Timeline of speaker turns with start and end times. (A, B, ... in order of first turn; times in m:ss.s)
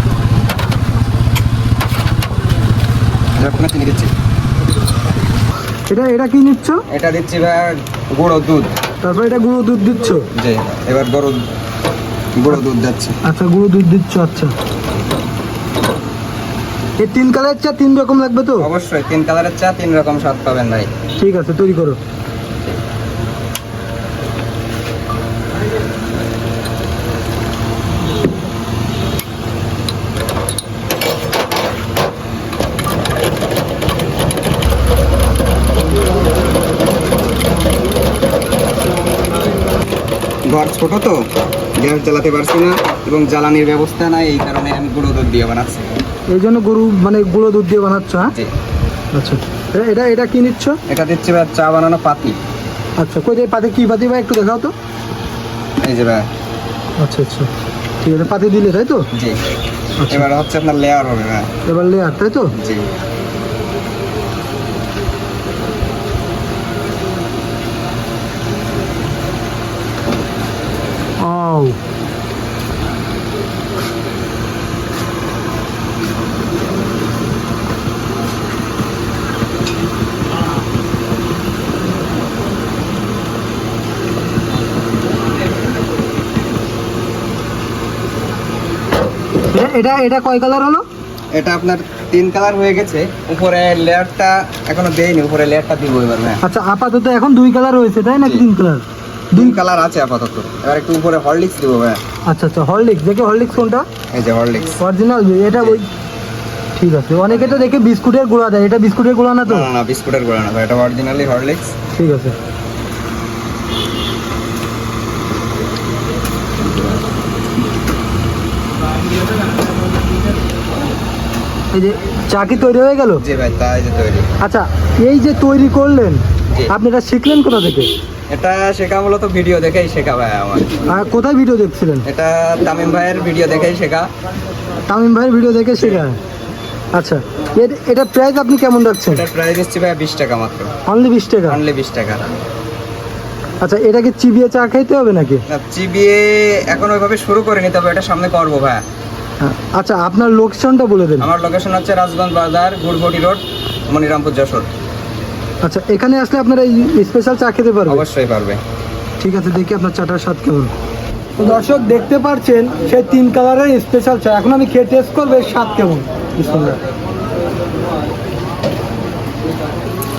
0:03.4-0:04.1 A
0:05.9-0:06.8 B
0:06.9-0:08.7 A
0:09.0-0:10.3 B
0:10.4-0:11.4 A
0:12.4-0:13.2 A
0:13.2-0:14.5 B
0:17.0-0:18.7 B
0:18.6-0:20.9 A
0:21.2-0:22.0 B
0:40.5-0:41.2 A
0:41.8-0:45.8 A
0:46.3-0:48.3 B
0:49.1-0:50.8 B
0:50.9-0:52.4 A
0:53.0-0:54.7 B
0:55.8-0:56.3 A
0:57.0-0:57.5 B
0:58.0-0:59.1 B
0:59.1-0:59.4 A
1:00.0-1:00.3 B
1:00.1-1:01.5 A
1:01.7-1:02.5 B
1:02.6-1:02.9 A
1:11.2-1:11.8 B
1:29.5-1:30.9 B
1:31.3-1:36.4 A
1:36.4-1:38.8 B
1:39.4-1:42.0 A
1:42.3-1:43.9 B
1:44.1-1:44.8 A
1:44.8-1:45.9 B
1:46.8-1:49.7 B
1:47.3-1:47.6 A
1:49.5-1:51.7 A
1:52.0-1:52.4 B
2:01.7-2:03.2 B
2:03.2-2:04.3 A
2:04.4-2:07.9 B
2:08.3-2:10.7 A
2:10.9-2:12.1 B
2:12.0-2:14.1 A
2:14.9-2:16.2 B
2:16.9-2:19.3 B
2:19.1-2:20.7 A
2:20.9-2:21.6 B
2:21.5-2:22.2 A
2:23.6-2:25.4 B
2:25.5-2:28.8 A
2:29.4-2:31.3 B
2:31.2-2:34.7 A
2:35.6-2:38.0 B
2:37.9-2:38.6 A
2:39.2-2:40.7 B
2:41.4-2:46.8 B